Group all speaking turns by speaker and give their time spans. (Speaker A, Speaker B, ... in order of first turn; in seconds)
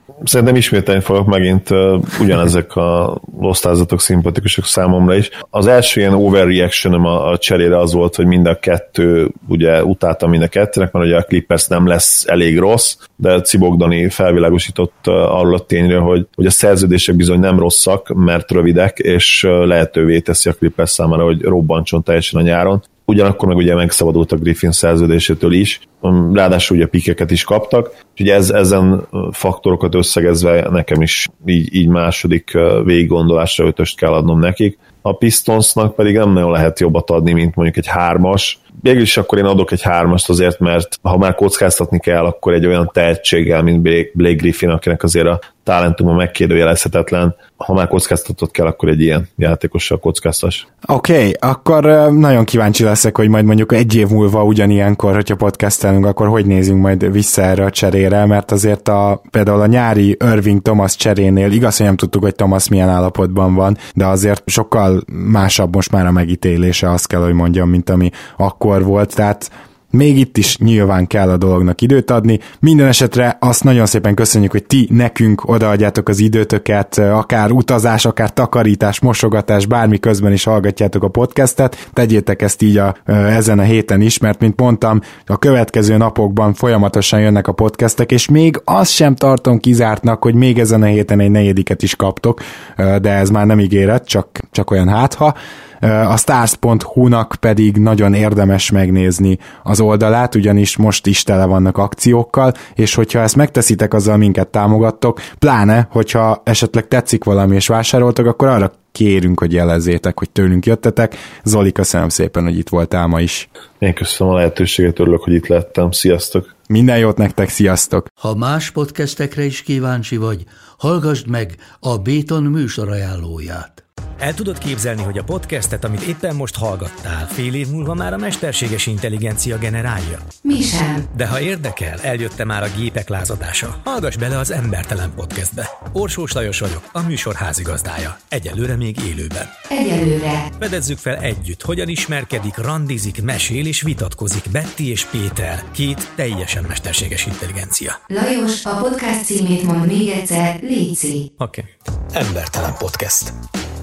Speaker A: 0.2-50.6, 113.8-116.5
Speaker B: 50.8-113.5, 116.7-118.1
Speaker C: 118.2-123.8
Speaker D: 124.2-130.3, 131.1-139.5, 140.6-148.0, 151.4-153.3
Speaker E: 130.4-131.1, 139.7-140.5, 148.1-151.3